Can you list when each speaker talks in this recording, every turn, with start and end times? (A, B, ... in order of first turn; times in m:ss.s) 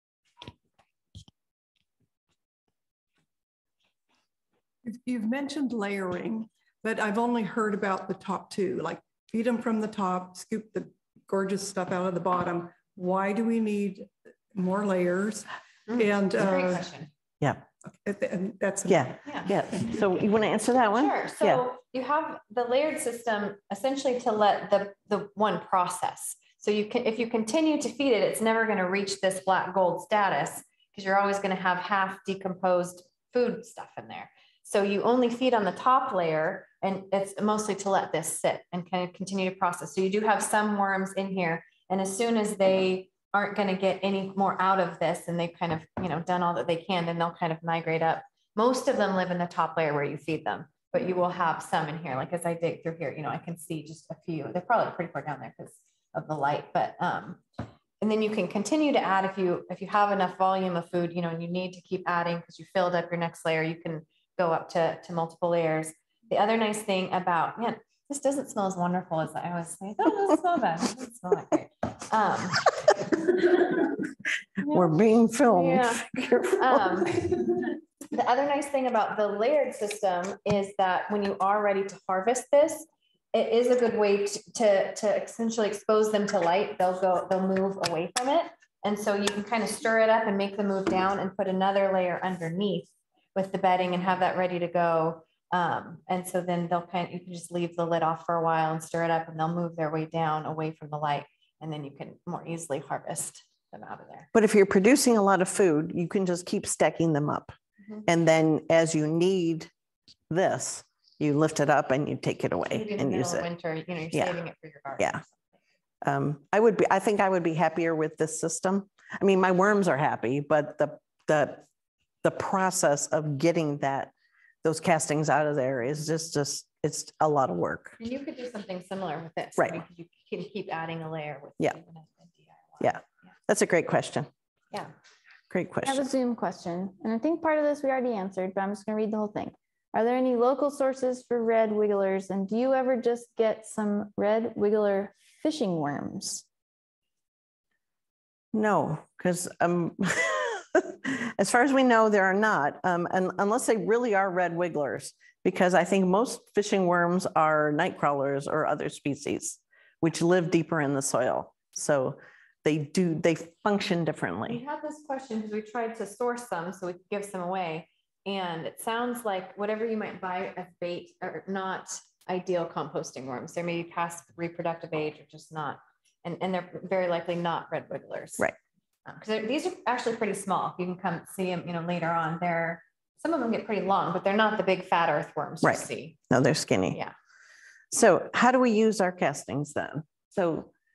0:04.8-0:16.9 A
0:15.9-0:17.1 B
0:17.9-0:19.1 A
0:18.9-0:21.6 C
0:19.2-0:19.5 B
0:20.7-0:57.4 B
0:58.0-1:12.8 B
1:14.6-1:14.9 B
1:14.6-1:17.1 C
1:15.5-1:44.3 B
1:44.3-1:47.5 C
1:48.0-1:49.7 C
1:50.3-1:53.5 C
1:52.7-1:55.3 B
1:54.1-1:54.4 C
1:56.0-2:01.6 C
2:02.2-2:04.1 C
2:04.6-2:08.0 C
2:08.0-2:13.0 B
2:12.8-2:14.3 C
2:15.5-2:16.0 C
2:15.8-2:26.4 D
2:28.5-2:44.6 C
2:44.5-2:58.5 B
2:59.1-3:06.2 B
3:05.6-3:07.0 C
3:07.9-3:10.7 C